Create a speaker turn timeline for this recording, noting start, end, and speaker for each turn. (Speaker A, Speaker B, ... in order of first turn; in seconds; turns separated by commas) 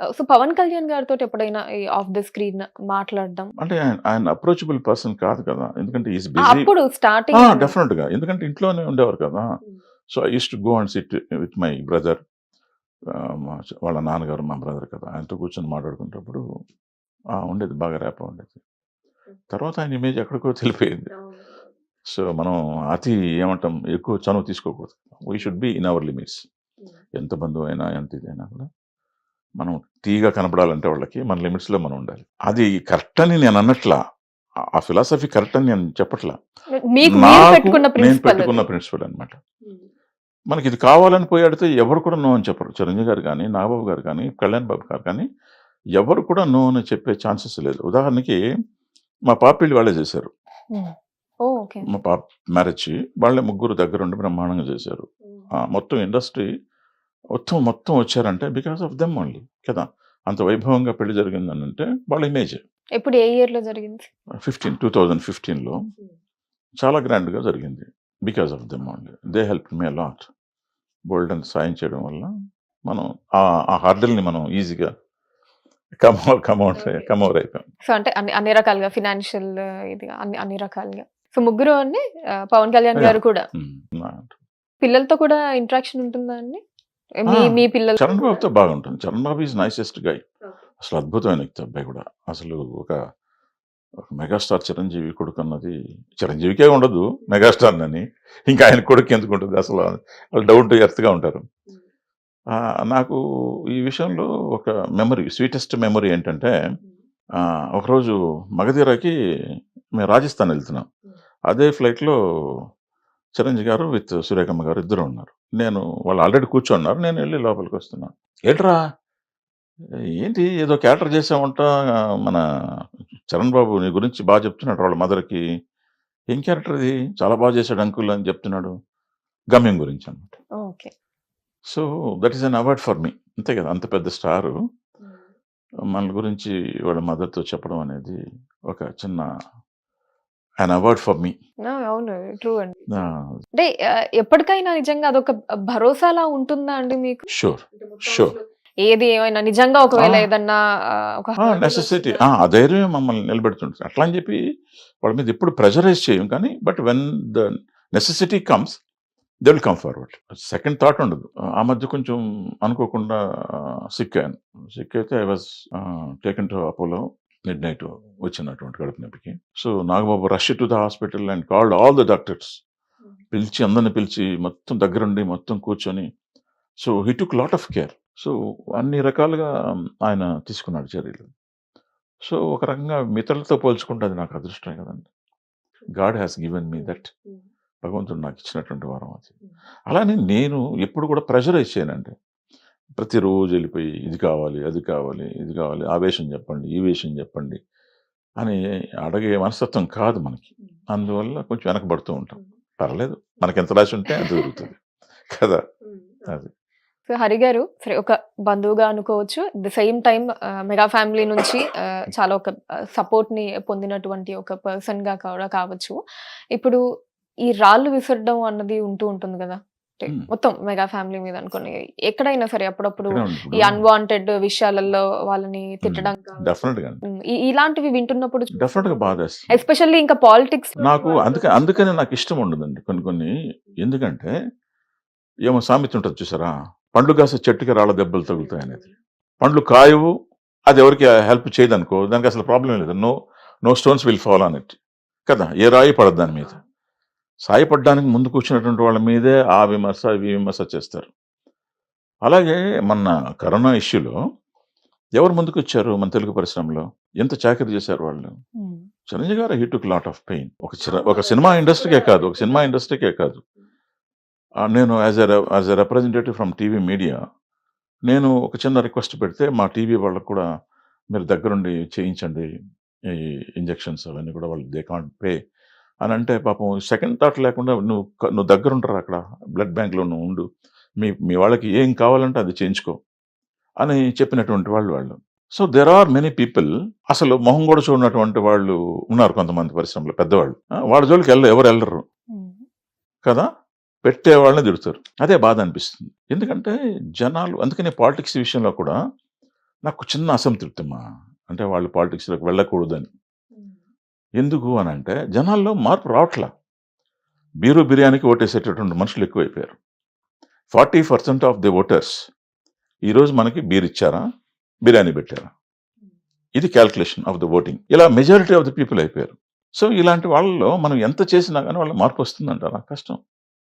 Speaker A: 0.2-3.5, Speaker B: 3.6-6.7, Speaker A: 6.5-7.7, Speaker B: 7.3-9.4, Speaker B: 10.1-12.2, Speaker B: 13.1-16.4, Speaker B: 17.4-18.6, Speaker B: 19.5-21.1, Speaker B: 22.1-26.4, Speaker B: 27.2-28.7, Speaker B: 29.6-34.0, Speaker B: 34.8-36.4, Speaker A: 36.9-38.6, Speaker B: 37.1-39.4, Speaker B: 40.5-45.2, Speaker B: 46.0-48.4, Speaker B: 49.3-50.3, Speaker A: 51.4-51.9, Speaker B: 51.9-55.1, Speaker B: 55.6-56.5, Speaker B: 57.4-62.6, Speaker A: 63.0-64.1, Speaker B: 64.4-65.8, Speaker B: 66.8-70.2, Speaker B: 71.1-72.3, Speaker B: 72.9-74.9, Speaker B: 76.0-77.7, Speaker A: 76.8-77.1, Speaker A: 77.9-83.4, Speaker B: 83.0-84.3, Speaker A: 84.8-86.6, Speaker A: 87.2-88.4, Speaker B: 87.3-90.2, Speaker B: 90.8-93.0, Speaker B: 94.1-101.4, Speaker B: 102.5-103.2, Speaker B: 103.7-106.5, Speaker B: 107.4-109.1, Speaker B: 110.0-110.9, Speaker B: 111.5-112.2, Speaker B: 113.4-118.8, Speaker B: 120.2-121.7, Speaker B: 123.3-125.4, Speaker B: 126.3-128.7, Speaker B: 129.5-130.3, Speaker A: 130.6-130.9, Speaker B: 131.7-134.6, Speaker B: 135.9-138.2, Speaker B: 138.7-139.2, Speaker B: 140.6-141.3, Speaker A: 141.7-143.0, Speaker B: 142.9-143.3, Speaker A: 143.6-147.2, Speaker B: 147.3-148.3, Speaker A: 148.1-150.6, Speaker B: 149.9-150.3, Speaker A: 151.2-152.2, Speaker B: 151.4-154.4, Speaker B: 155.0-158.8, Speaker B: 159.4-172.6, Speaker B: 173.3-176.1, Speaker B: 176.8-179.5, Speaker B: 180.0-181.3, Speaker B: 182.2-185.1, Speaker B: 185.9-187.1, Speaker B: 187.8-189.3, Speaker B: 189.9-192.1, Speaker B: 193.0-197.6, Speaker B: 198.4-204.8, Speaker B: 205.3-205.6, Speaker A: 207.1-215.9, Speaker A: 217.5-231.6, Speaker B: 223.1-223.8, Speaker B: 225.8-227.0, Speaker B: 228.6-229.6, Speaker B: 230.8-234.3, Speaker B: 235.5-238.8, Speaker B: 239.4-240.1, Speaker B: 240.7-243.1, Speaker B: 243.7-244.8, Speaker B: 245.3-246.6, Speaker B: 247.5-251.1, Speaker B: 252.2-254.1, Speaker B: 255.2-258.3, Speaker A: 258.6-258.9, Speaker B: 259.1-263.4, Speaker B: 264.7-267.2, Speaker B: 268.1-270.4, Speaker B: 271.1-272.4, Speaker B: 273.1-275.4, Speaker B: 276.0-280.4, Speaker B: 281.0-283.0, Speaker B: 283.8-292.0, Speaker A: 292.3-292.6, Speaker B: 294.0-298.9, Speaker B: 299.9-303.1, Speaker B: 304.4-306.5, Speaker B: 307.6-309.8, Speaker B: 310.7-312.1, Speaker B: 313.1-314.2, Speaker B: 314.9-315.5, Speaker B: 316.6-323.2